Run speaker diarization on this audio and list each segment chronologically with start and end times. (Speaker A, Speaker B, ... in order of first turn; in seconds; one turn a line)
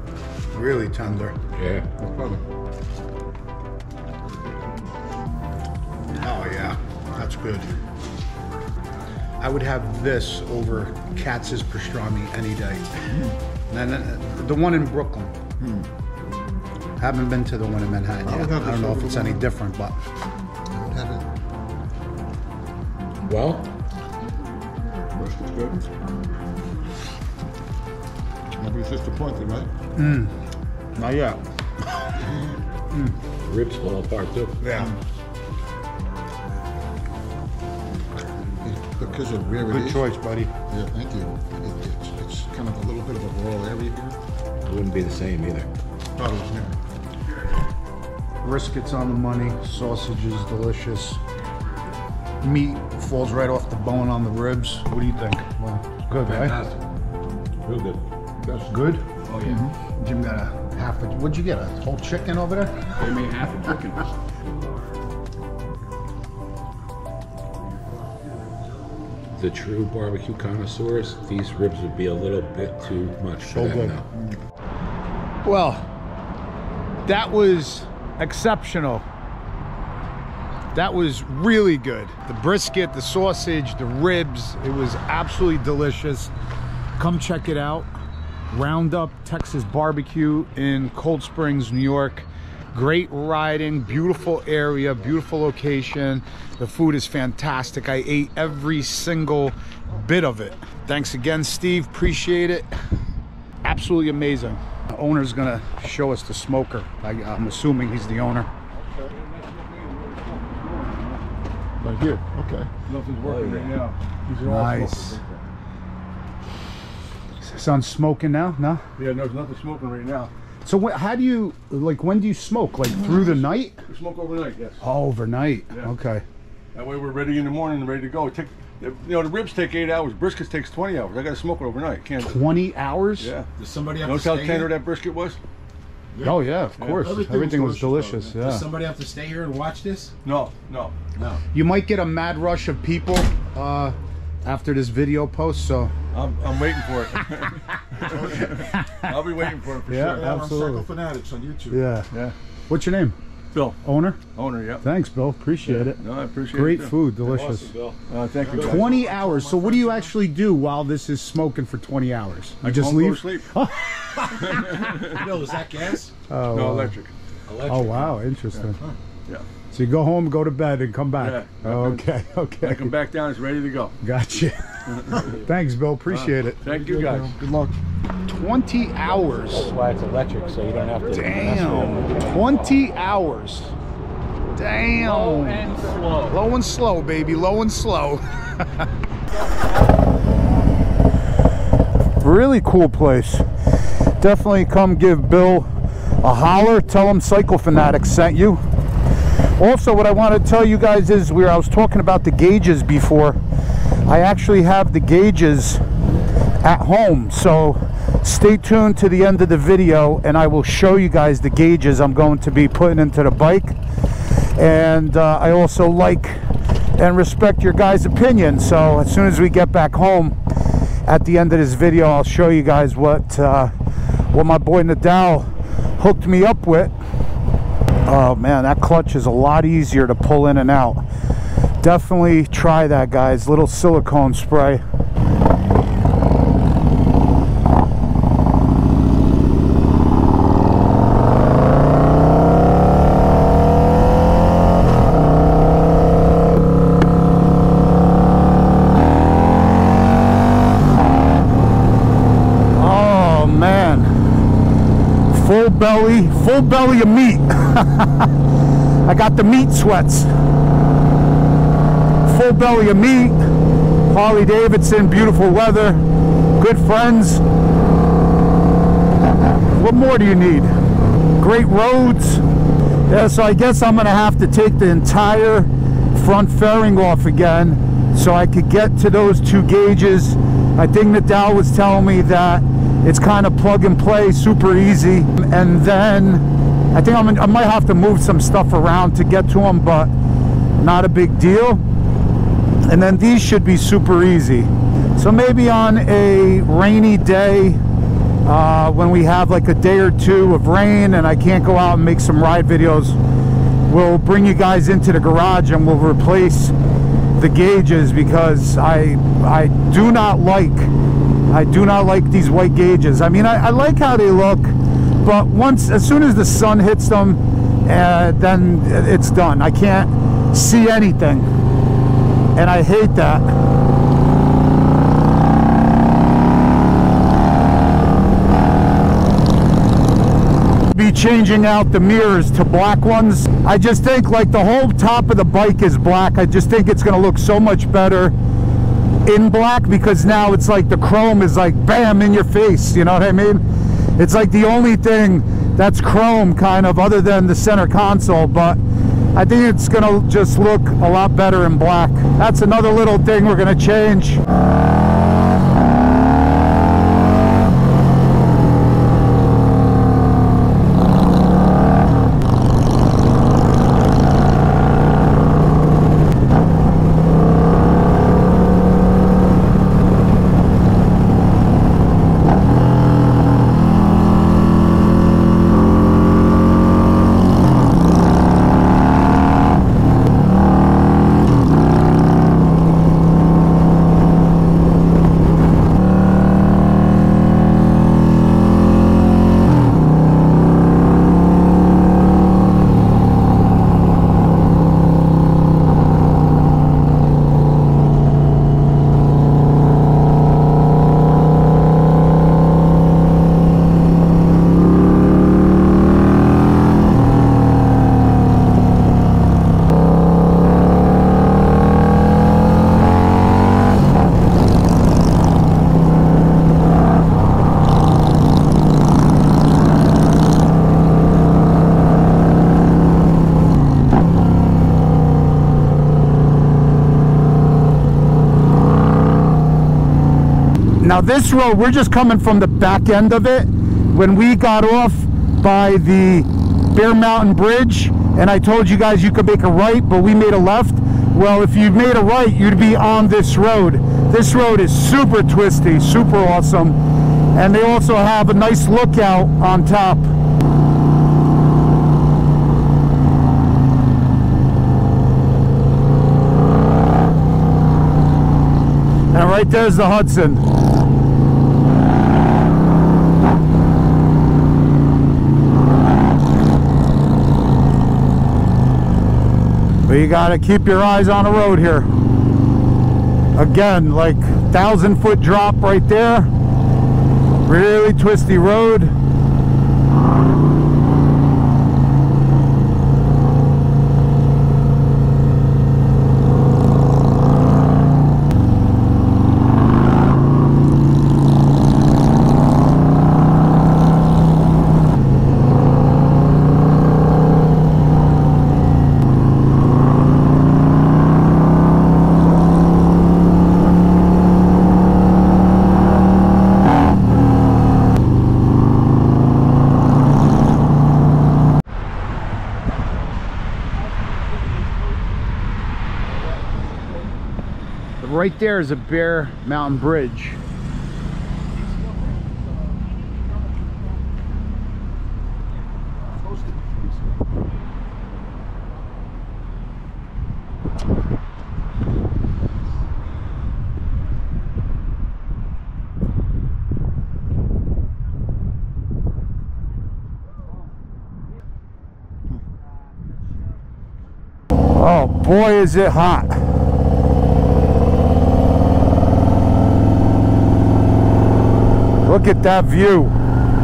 Speaker A: 0.5-1.4
Speaker B: 1.6-1.9
Speaker C: 2.0-2.4
Speaker A: 6.2-7.8
Speaker A: 9.4-13.1
Speaker A: 13.7-15.3
Speaker C: 15.6-15.9
Speaker A: 17.0-20.0
Speaker C: 18.2-19.5
Speaker C: 20.7-21.3
Speaker B: 23.3-23.7
Speaker C: 25.1-25.9
Speaker C: 28.6-29.7
Speaker A: 30.0-30.3
Speaker C: 31.0-31.4
Speaker B: 33.4-34.6
Speaker A: 34.6-34.9
Speaker C: 34.6-35.0
Speaker C: 38.6-44.2
Speaker A: 39.6-40.5
Speaker B: 44.6-45.7
Speaker C: 46.2-46.8
Speaker A: 48.4-51.2
Speaker A: 52.4-56.6
Speaker B: 56.1-56.8
Speaker B: 57.6-58.0
Speaker C: 58.4-58.8
Speaker A: 58.7-59.1
Speaker B: 59.2-59.7
Speaker C: 59.4-59.7
Speaker A: 60.0-62.9
Speaker B: 63.0-64.1
Speaker B: 69.4-74.1
Speaker A: 73.5-74.0
Speaker A: 75.5-75.8
Speaker A: 77.1-79.0
Speaker A: 80.7-86.3
Speaker A: 87.0-87.9
Speaker A: 88.5-102.7
Speaker A: 103.6-108.5
Speaker D: 109.1-111.3
Speaker C: 111.8-112.7
Speaker D: 112.9-115.4
Speaker B: 113.2-113.8
Speaker A: 114.4-115.2
Speaker A: 117.4-118.8
Speaker D: 119.0-120.3
Speaker A: 120.7-123.8
Speaker D: 123.9-124.8
Speaker A: 124.8-126.2
Speaker D: 126.7-132.4
Speaker A: 132.2-133.3
Speaker D: 133.2-133.5
Speaker B: 133.6-134.7
Speaker D: 134.0-135.4
Speaker A: 136.2-138.7
Speaker D: 136.8-137.1
Speaker B: 137.0-140.1
Speaker C: 137.3-138.3
Speaker D: 140.2-141.0
Speaker B: 141.2-141.4
Speaker A: 141.5-145.9
Speaker D: 146.1-150.3
Speaker C: 148.0-148.5
Speaker A: 148.4-149.2
Speaker A: 149.8-150.9
Speaker C: 149.9-151.8
Speaker A: 151.7-152.1
Speaker A: 152.7-153.2
Speaker D: 153.5-153.8
Speaker A: 153.8-154.2
Speaker D: 154.3-154.8
Speaker A: 154.8-156.0
Speaker D: 155.7-156.9
Speaker A: 156.5-157.7
Speaker B: 157.2-159.1
Speaker D: 158.1-160.1
Speaker C: 158.4-158.8
Speaker A: 158.6-164.8
Speaker D: 162.6-163.5
Speaker D: 164.3-165.3
Speaker B: 164.6-166.1
Speaker A: 166.3-166.9
Speaker D: 166.5-167.1
Speaker B: 167.5-168.1
Speaker A: 167.7-168.8
Speaker A: 169.7-172.9
Speaker D: 171.2-172.1
Speaker D: 172.6-174.0
Speaker A: 174.0-176.6
Speaker D: 174.9-175.3
Speaker D: 176.1-177.4
Speaker C: 176.7-177.8
Speaker A: 178.3-179.7
Speaker B: 179.5-182.1
Speaker A: 181.1-183.7
Speaker A: 184.6-185.7
Speaker D: 185.0-186.4
Speaker A: 186.3-188.9
Speaker A: 192.2-193.5
Speaker A: 194.2-195.7
Speaker A: 196.2-198.6
Speaker A: 199.6-203.4
Speaker A: 204.1-205.8
Speaker A: 206.6-213.8
Speaker A: 214.6-216.4
Speaker A: 217.0-220.4
Speaker A: 221.1-223.7
Speaker A: 224.3-226.9
Speaker A: 228.1-231.0
Speaker A: 231.8-234.8
Speaker A: 252.7-254.1
Speaker A: 255.3-258.4
Speaker A: 259.1-260.3
Speaker A: 262.2-263.4
Speaker A: 264.1-266.0
Speaker A: 266.6-267.4
Speaker A: 269.8-270.7
Speaker A: 271.4-272.4
Speaker A: 273.1-290.1
Speaker A: 290.8-291.8
Speaker A: 292.8-297.8
Speaker A: 298.4-303.2
Speaker A: 303.9-306.8
Speaker A: 307.4-310.9
Speaker A: 311.5-321.5
Speaker A: 322.6-323.5
Speaker A: 330.9-338.4
Speaker A: 339.2-343.6
Speaker A: 344.2-348.8
Speaker A: 349.3-354.4
Speaker A: 431.0-447.0
Speaker A: 447.5-450.3
Speaker A: 459.3-460.6
Speaker A: 470.1-472.1
Speaker A: 473.6-476.5
Speaker A: 477.6-479.1
Speaker A: 518.2-520.6
Speaker A: 545.0-546.6
Speaker A: 552.2-553.4